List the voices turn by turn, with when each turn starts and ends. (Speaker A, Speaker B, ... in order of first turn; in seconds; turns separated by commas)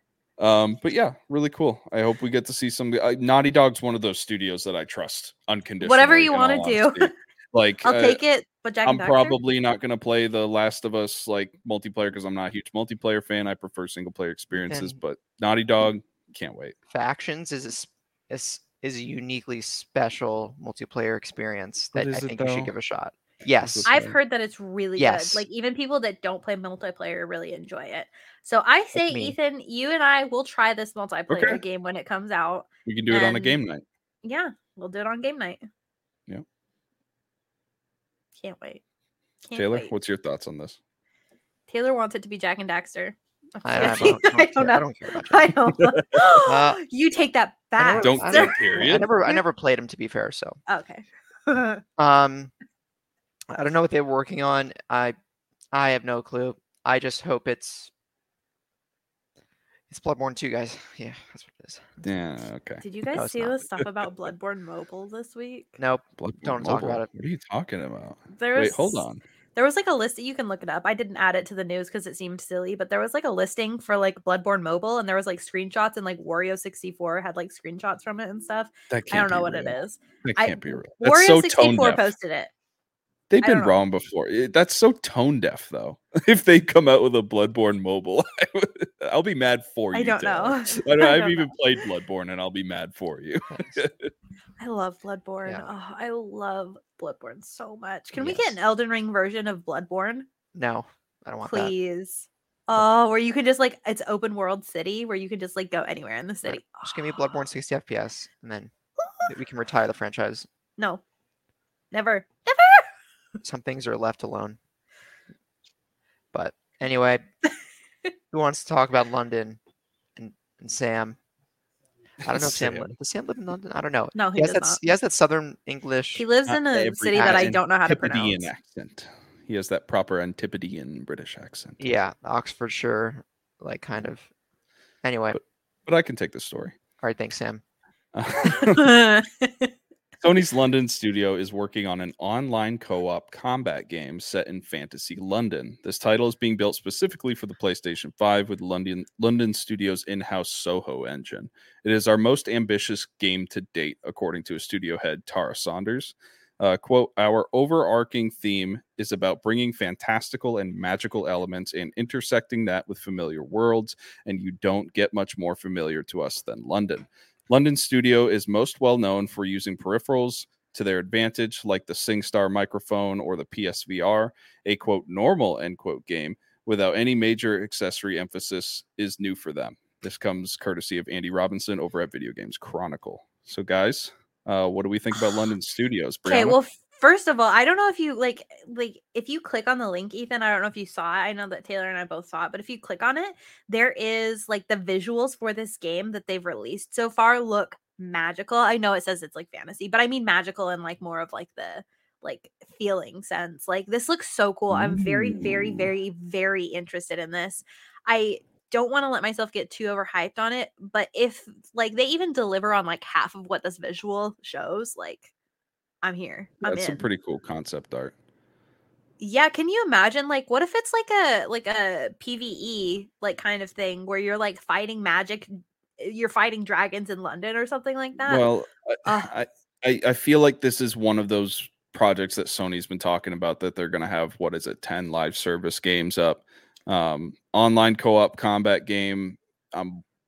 Speaker A: 0.4-8.2, Speaker B: 5.8-7.1, Speaker B: 7.8-9.4, Speaker A: 8.8-16.7, Speaker C: 14.5-14.9, Speaker C: 16.9-23.9, Speaker A: 21.9-22.7, Speaker A: 23.6-24.1, Speaker B: 23.9-33.6, Speaker C: 25.0-25.4, Speaker C: 28.9-29.4, Speaker A: 31.3-31.6, Speaker A: 32.9-33.8, Speaker B: 34.2-35.6, Speaker B: 38.4-38.8, Speaker B: 39.4-39.9, Speaker A: 39.5-40.8, Speaker B: 41.7-49.4, Speaker C: 43.6-45.6, Speaker C: 46.4-46.8, Speaker C: 47.8-50.6, Speaker A: 48.0-49.1, Speaker B: 50.7-51.8, Speaker C: 52.0-52.5, Speaker C: 53.5-55.1, Speaker C: 55.7-57.9, Speaker C: 59.9-62.1, Speaker A: 62.0-62.8, Speaker B: 62.8-65.8, Speaker C: 63.1-63.6, Speaker C: 65.8-67.1, Speaker A: 66.2-69.2, Speaker B: 68.3-82.5, Speaker A: 78.9-82.1, Speaker A: 83.3-94.1, Speaker B: 83.4-83.8, Speaker B: 89.9-91.5, Speaker C: 93.5-93.8, Speaker B: 94.6-100.2, Speaker C: 95.4-95.7, Speaker C: 98.2-98.5, Speaker C: 100.5-101.7, Speaker B: 101.4-107.4, Speaker C: 106.5-110.5, Speaker B: 111.9-112.9, Speaker C: 113.4-114.6, Speaker C: 116.3-117.2, Speaker C: 118.3-119.6, Speaker C: 120.2-121.2, Speaker A: 122.2-122.9, Speaker C: 122.2-126.2, Speaker B: 124.2-124.8, Speaker B: 126.1-128.5, Speaker A: 126.5-131.9, Speaker C: 127.2-127.5, Speaker C: 131.8-134.3, Speaker C: 135.0-135.4, Speaker A: 135.3-136.8, Speaker C: 137.0-137.6, Speaker A: 138.1-139.0, Speaker B: 138.6-139.7, Speaker A: 140.2-186.6, Speaker B: 186.2-215.3, Speaker A: 204.7-205.9, Speaker B: 216.0-217.0, Speaker A: 216.6-218.1, Speaker B: 219.2-228.5, Speaker A: 228.3-240.0, Speaker B: 229.1-229.3